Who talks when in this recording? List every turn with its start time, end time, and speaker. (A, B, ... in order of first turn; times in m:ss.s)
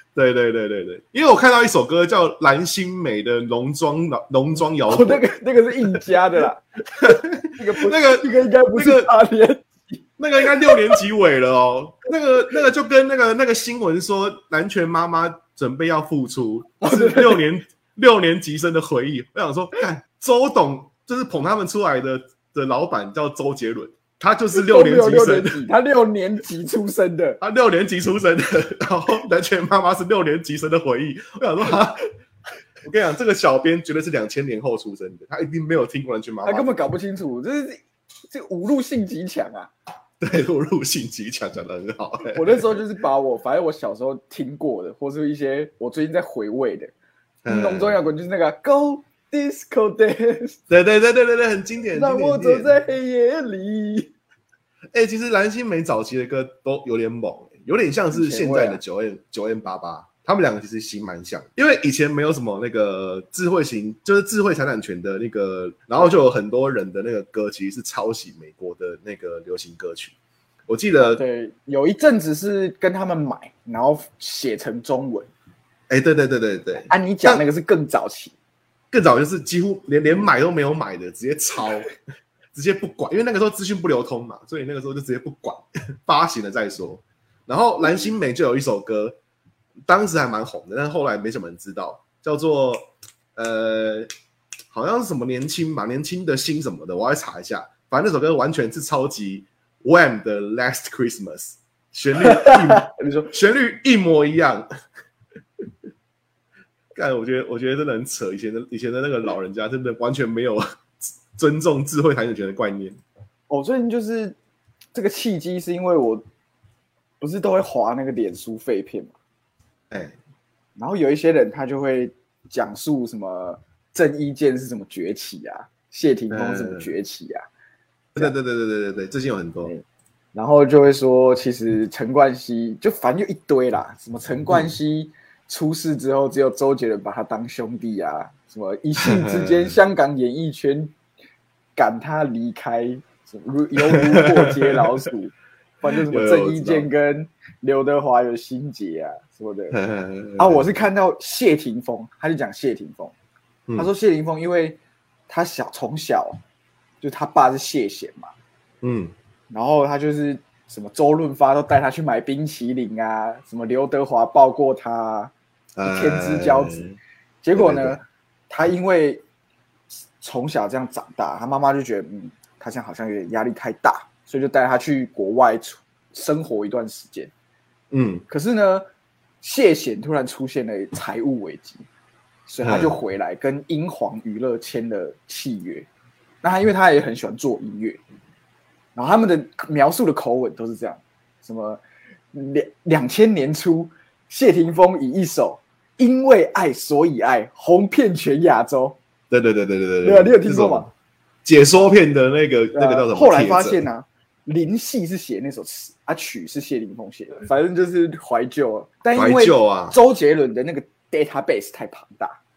0:00.2-0:05.2 A
0:04.9-0:11.0 B
0:05.8-0:06.2 A
0:07.0-0:09.1 A
0:10.2-0:25.6 A
0:16.8-0:17.4 B
0:24.5-0:27.4 B
0:27.4-0:32.1 A
0:32.8-0:36.9 A
0:36.4-0:39.7 B
0:40.2-0:42.8 A
0:42.2-0:46.9 B
0:47.4-0:48.0 A
0:47.4-0:50.6 B
0:50.7-0:52.8 A
0:51.9-0:54.1 B
0:54.9-1:10.1 A
0:58.1-0:58.8 B
1:10.7-1:11.2 A
1:11.0-1:15.3 B
1:15.9-1:17.4 A
1:16.8-1:18.3 B
1:18.9-1:21.9 A
1:22.5-1:29.2 A
1:29.9-1:34.1 A
1:34.7-1:44.7 A
1:42.2-1:43.3 B
1:46.9-1:50.6 A
1:51.3-1:53.0 A
1:53.5-1:54.4 B
1:54.9-1:56.2 B
1:57.2-1:59.1 B
1:59.9-2:00.2 A
2:00.8-2:07.4 B
2:06.3-2:06.9 A
2:08.1-2:09.7 A
2:10.3-2:20.9 B
2:19.0-2:19.7 A
2:21.8-2:29.8 B
2:23.8-2:25.0 A
2:26.0-2:26.9 A
2:29.7-2:30.7 A
2:30.4-2:33.1 B
2:33.8-2:34.8 B
2:35.3-2:36.4 B
2:37.0-2:38.3 B
2:38.8-2:39.1 A
2:39.5-2:45.3 B
2:45.8-2:47.0 A
2:45.8-2:46.8 B
2:47.4-2:48.0 B
2:47.5-2:48.0 A
2:48.5-2:49.2 B
2:50.2-2:57.3 B
2:57.9-2:58.2 A
2:58.3-2:58.8 B
2:59.4-3:01.8 B
3:02.5-3:05.9 B
3:02.6-3:03.0 A
3:06.4-3:08.0 B
3:08.9-3:11.8 B
3:12.3-3:19.0 B
3:19.3-3:20.9 A
3:20.0-3:20.9 B
3:21.4-3:23.8 A
3:22.7-3:32.4 B
3:29.1-3:30.0 A